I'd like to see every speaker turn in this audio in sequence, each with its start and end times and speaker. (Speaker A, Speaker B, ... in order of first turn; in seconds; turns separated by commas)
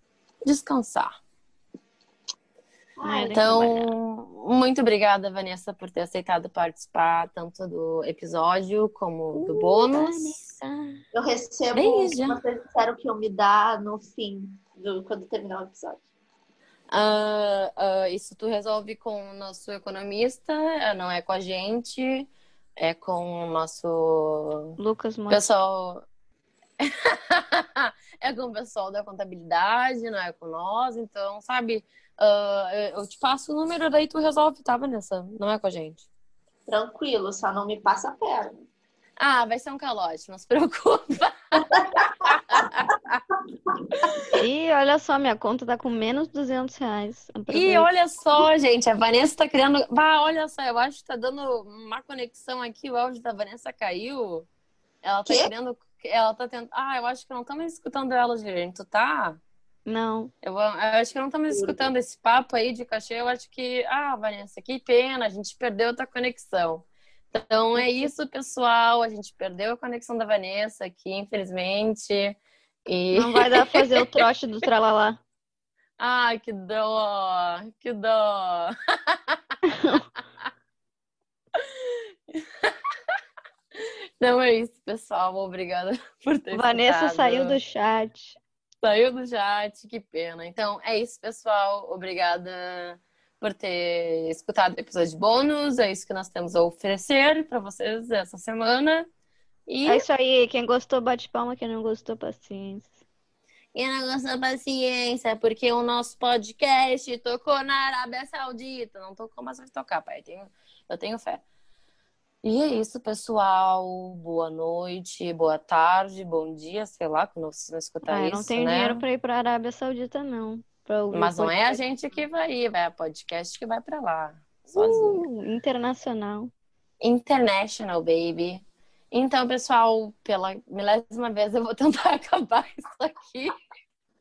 Speaker A: 0.5-1.1, Speaker B: 3.0-3.5, Speaker C: 3.0-3.9, Speaker A: 3.3-10.4, Speaker C: 9.3-11.0, Speaker B: 11.1-16.0, Speaker A: 11.7-12.4, Speaker A: 16.9-24.7, Speaker C: 24.8-25.5, Speaker A: 25.3-26.0, Speaker A: 26.8-36.1, Speaker B: 36.7-38.6, Speaker A: 39.2-43.2, Speaker B: 42.3-42.6, Speaker C: 44.4-47.9, Speaker A: 47.5-54.5, Speaker A: 55.0-59.4, Speaker B: 55.3-55.5, Speaker C: 59.9-60.3, Speaker A: 60.4-74.3, Speaker B: 61.5-61.9, Speaker C: 67.8-68.1, Speaker C: 73.1-75.2, Speaker A: 76.0-79.4, Speaker C: 79.7-80.0, Speaker A: 81.6-82.7, Speaker A: 83.8-87.6, Speaker C: 86.5-88.4, Speaker A: 88.8-99.1, Speaker A: 99.7-100.0, Speaker C: 99.8-102.9, Speaker A: 103.7-111.4, Speaker A: 112.4-119.0, Speaker C: 118.0-121.8, Speaker A: 121.1-125.3, Speaker C: 124.7-126.5, Speaker A: 127.0-133.5